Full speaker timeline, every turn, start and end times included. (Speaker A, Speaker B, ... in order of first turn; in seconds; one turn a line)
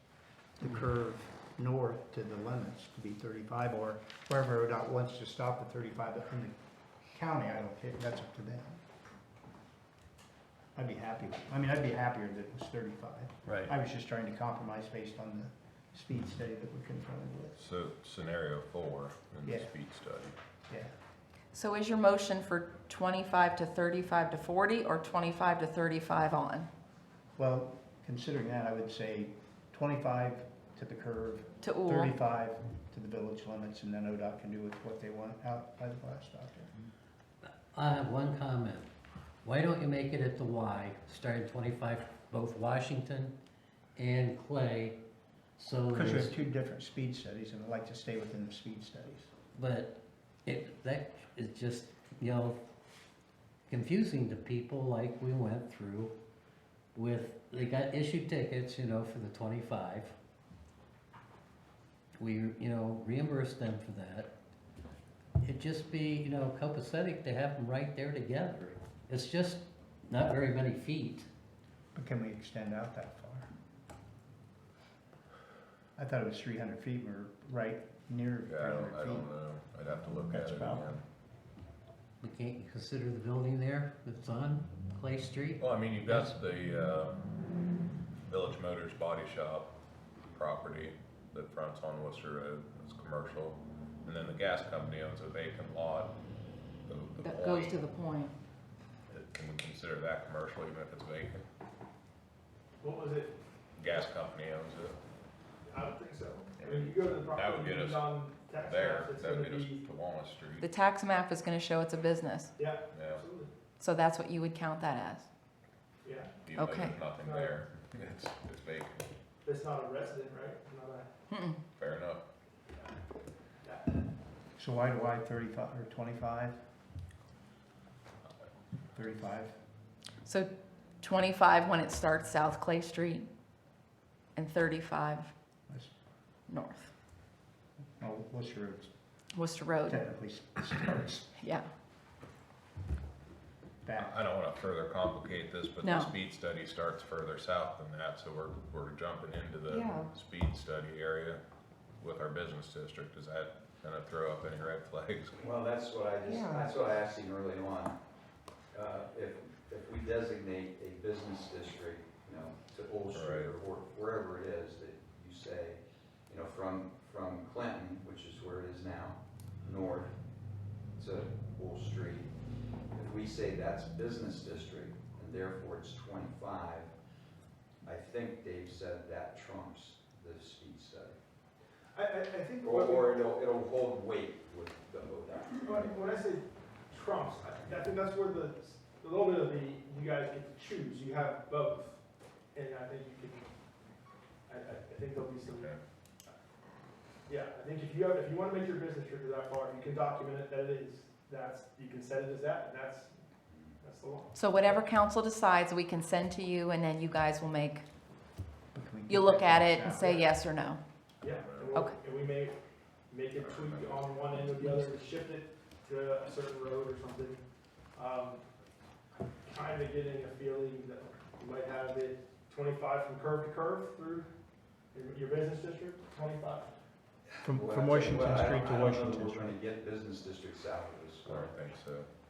Speaker A: 0.6-6.5
Speaker A: 7.1-8.8
Speaker A: 10.7-17.6
Speaker B: 17.6-20.4
Speaker A: 19.4-19.7
Speaker C: 21.5-26.7
Speaker A: 27.4-36.7
Speaker C: 31.6-32.1
Speaker D: 37.7-38.9
Speaker D: 39.4-43.3
Speaker D: 44.0-45.0
Speaker D: 45.6-46.4
Speaker A: 45.9-49.3
Speaker D: 49.5-52.6
Speaker D: 53.7-56.1
Speaker D: 56.9-60.1
Speaker D: 62.2-64.3
Speaker D: 65.4-71.3
Speaker A: 71.9-73.5
Speaker A: 76.0-79.3
Speaker B: 78.4-81.0
Speaker A: 80.1-80.9
Speaker D: 82.2-86.3
Speaker B: 85.6-87.2
Speaker B: 88.3-89.7
Speaker B: 90.3-96.1
Speaker B: 96.9-97.9
Speaker C: 97.2-98.3
Speaker B: 99.1-101.5
Speaker E: 102.8-103.3
Speaker B: 103.8-105.0
Speaker E: 105.7-109.8
Speaker B: 106.6-110.7
Speaker C: 110.6-112.5
Speaker E: 112.5-113.5
Speaker B: 112.9-113.2
Speaker C: 113.8-115.3
Speaker E: 116.0-116.3
Speaker B: 116.4-119.1
Speaker C: 116.5-116.9
Speaker E: 117.2-117.5
Speaker E: 119.4-121.1
Speaker C: 121.3-121.6
Speaker B: 121.8-122.2
Speaker A: 124.6-126.5
Speaker A: 128.9-129.5
Speaker C: 131.0-133.3
Speaker C: 134.3-135.3
Speaker C: 136.5-136.9
Speaker A: 138.0-138.9
Speaker C: 139.3-140.0
Speaker A: 139.8-141.3
Speaker C: 141.4-141.6
Speaker A: 143.8-144.2
Speaker B: 144.0-151.4
Speaker C: 145.8-146.1
Speaker B: 152.0-155.4
Speaker F: 155.4-158.0
Speaker F: 158.7-170.1
Speaker B: 163.1-163.6
Speaker F: 170.9-172.3
Speaker F: 172.9-176.9
Speaker F: 177.8-181.2
Speaker E: 181.9-183.2
Speaker F: 182.6-185.9
Speaker E: 185.6-192.0
Speaker E: 192.5-193.5
Speaker E: 194.5-195.7
Speaker B: 195.4-195.8
Speaker E: 197.3-203.1
Speaker F: 203.5-203.7
Speaker E: 203.8-204.8
Speaker C: 204.3-207.8
Speaker A: 208.7-210.1
Speaker C: 209.1-210.8
Speaker E: 210.0-210.3
Speaker E: 211.2-212.6
Speaker B: 211.3-211.8
Speaker E: 213.1-217.4
Speaker B: 213.3-214.2
Speaker E: 217.9-218.4
Speaker E: 219.4-224.3
Speaker E: 224.9-226.7
Speaker A: 227.4-229.6
Speaker F: 227.5-231.5
Speaker B: 231.2-232.1